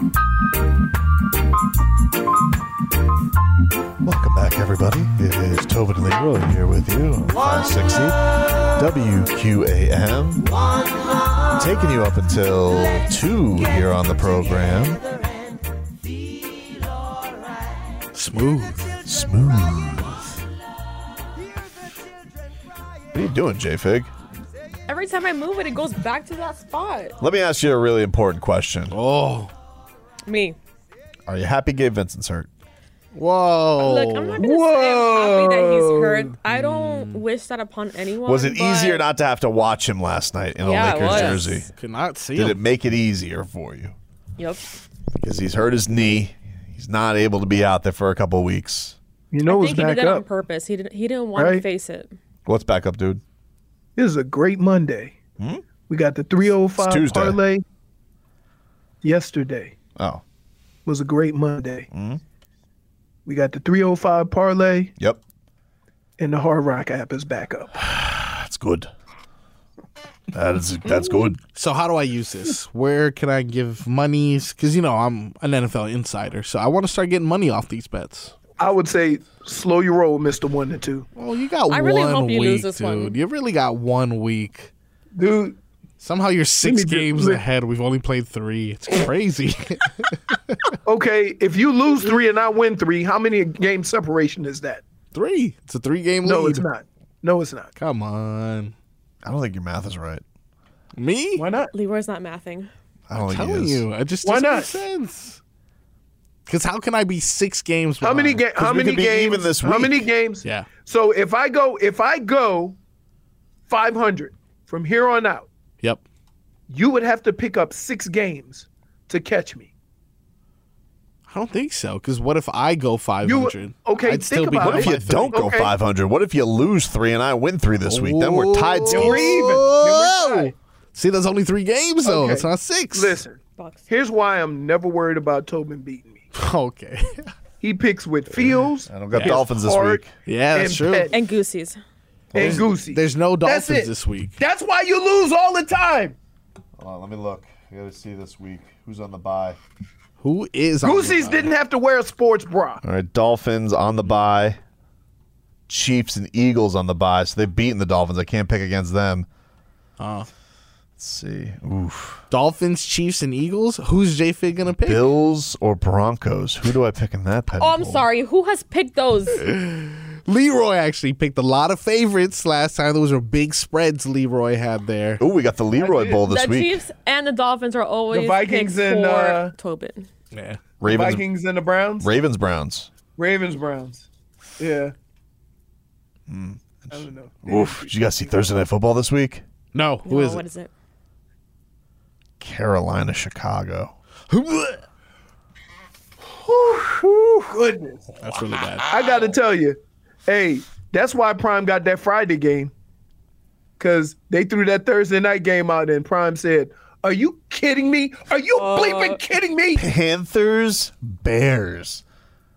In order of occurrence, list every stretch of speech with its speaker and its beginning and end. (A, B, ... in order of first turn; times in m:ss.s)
0:04.0-0:08.2 A
0:08.8-0:10.5 A
0:11.5-0:15.0 A
0:18.1-0:18.9 B
0:19.0-0:20.4 A
0:23.1-0:24.1 A
0:24.9-0:27.2 C
0:27.2-0:29.0 A
0:28.9-0:29.5 B
0:30.3-0:30.6 C
0:31.3-0:32.5 A
0:33.1-0:34.5 B
0:33.8-0:39.0 C
0:34.4-0:36.3 D
0:36.5-0:37.3 B
0:38.2-0:41.7 A
0:40.6-0:41.6 C
0:40.8-0:42.6 B
0:42.4-0:44.0 A
0:44.4-0:44.6 C
0:45.2-0:49.0 A
0:49.3-0:50.3 D
0:49.5-0:52.1 C
0:51.3-0:51.6 D
0:52.5-0:53.2 A
0:54.0-0:55.2 D
0:55.4-0:55.6 A
0:55.9-0:57.6 D
0:56.8-0:57.4 A
0:59.0-0:59.8 D
1:00.0-1:00.2 A
1:00.9-1:01.9 D
1:01.9-1:02.2 A
1:03.3-1:04.9 D
1:06.2-1:07.7 D
1:07.8-1:08.9 A
1:10.3-1:11.4 A
1:11.4-1:18.3 B
1:18.6-1:21.1 D
1:21.2-1:24.7 B
1:21.7-1:23.2 C
1:25.2-1:25.6 D
1:26.0-1:29.9 B
1:26.6-1:27.4 D
1:30.8-1:34.8 D
1:35.1-1:36.7 B
1:36.2-1:37.7 D
1:37.8-1:38.7 B
1:39.2-1:40.2 A
1:41.0-1:41.5 B
1:41.4-1:41.7 D
1:41.7-1:42.7 C
1:43.1-1:43.8 A
1:43.2-1:45.4 B
1:44.2-1:44.8 D
1:46.5-1:48.5 B
1:48.0-1:52.8 D
1:48.6-1:50.1 A
1:50.4-1:50.7 B
1:53.7-1:55.5 D
1:56.7-1:59.7 D
2:01.3-2:05.5 B
2:03.2-2:05.7 D
2:04.6-2:09.4 A
2:07.9-2:13.2 B
2:08.9-2:10.5 D
2:12.0-2:16.2 D
2:13.6-2:13.8 C
2:16.3-2:17.3 B
2:17.6-2:21.1 D
2:18.9-2:20.1 A
2:19.1-2:19.5 B
2:20.2-2:21.1 B
2:21.1-2:21.8 C
2:22.3-2:22.6 A
2:22.3-2:24.4 B
2:22.3-2:26.2 D
2:26.8-2:29.6 A
2:30.2-2:31.5 B
2:30.8-2:32.8 D
2:32.8-2:34.6 A
2:35.7-2:39.3 A
2:40.0-2:40.3 B
2:41.0-2:42.2 A
2:42.3-2:45.1 B
2:44.8-2:48.0 A
2:47.6-2:49.4 C
2:49.4-2:55.2 B
2:55.2-2:56.8 A
2:55.8-2:56.2 D
2:56.3-3:00.1 C
2:58.1-2:59.5 D
3:00.3-3:00.7 B
3:00.8-3:01.2 A
3:00.8-3:02.1 D
3:02.0-3:02.9 A
3:03.2-3:04.1 D
3:04.6-3:04.9 D
3:06.3-3:09.4 A
3:06.9-3:07.9 D
3:09.7-3:10.5 B
3:10.0-3:10.7 C
3:12.4-3:13.9 A
3:14.3-3:14.8 B
3:16.4-3:18.1 D
3:18.2-3:19.0 B
3:18.9-3:22.7 D
3:23.8-3:29.8 D
3:28.6-3:29.2 C
3:29.8-3:32.0 A